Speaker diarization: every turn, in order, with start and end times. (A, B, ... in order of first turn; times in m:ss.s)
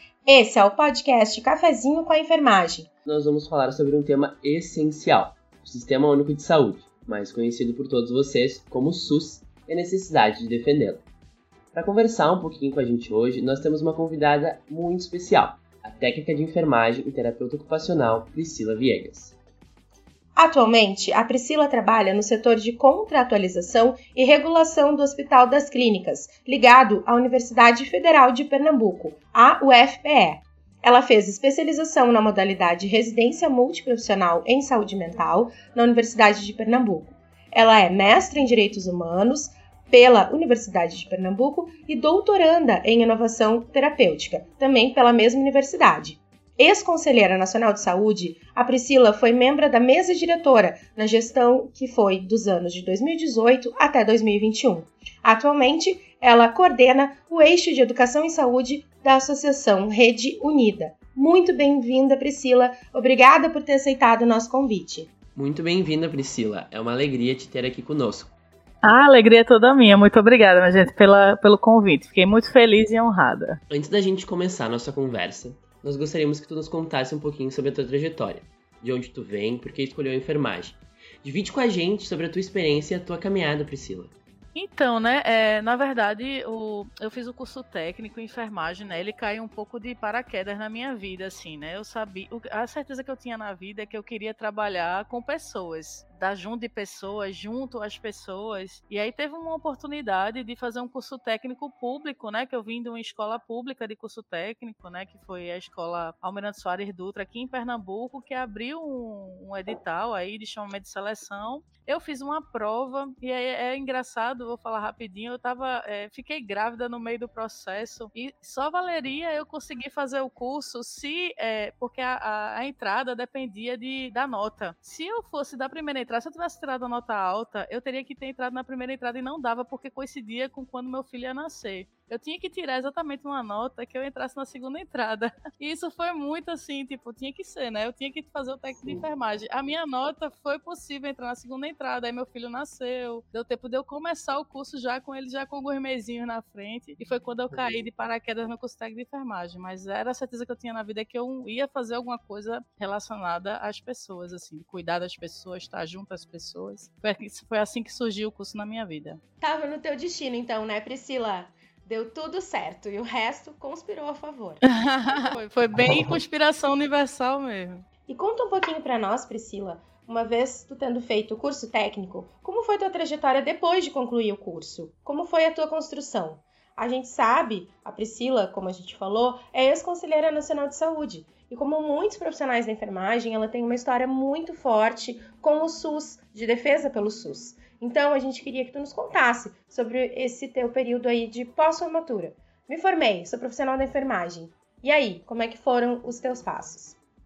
0:00.3-0:02.9 A
0:03.0-0:11.0 B
0:11.7-0:19.4 B
0:20.4-1:05.0 A
1:05.3-1:08.3 B
1:08.8-1:13.6 C
1:13.7-1:24.1 B
1:24.5-2:39.2 C
2:39.4-2:44.6 A
2:44.6-2:47.8 C
2:48.1-3:17.0 A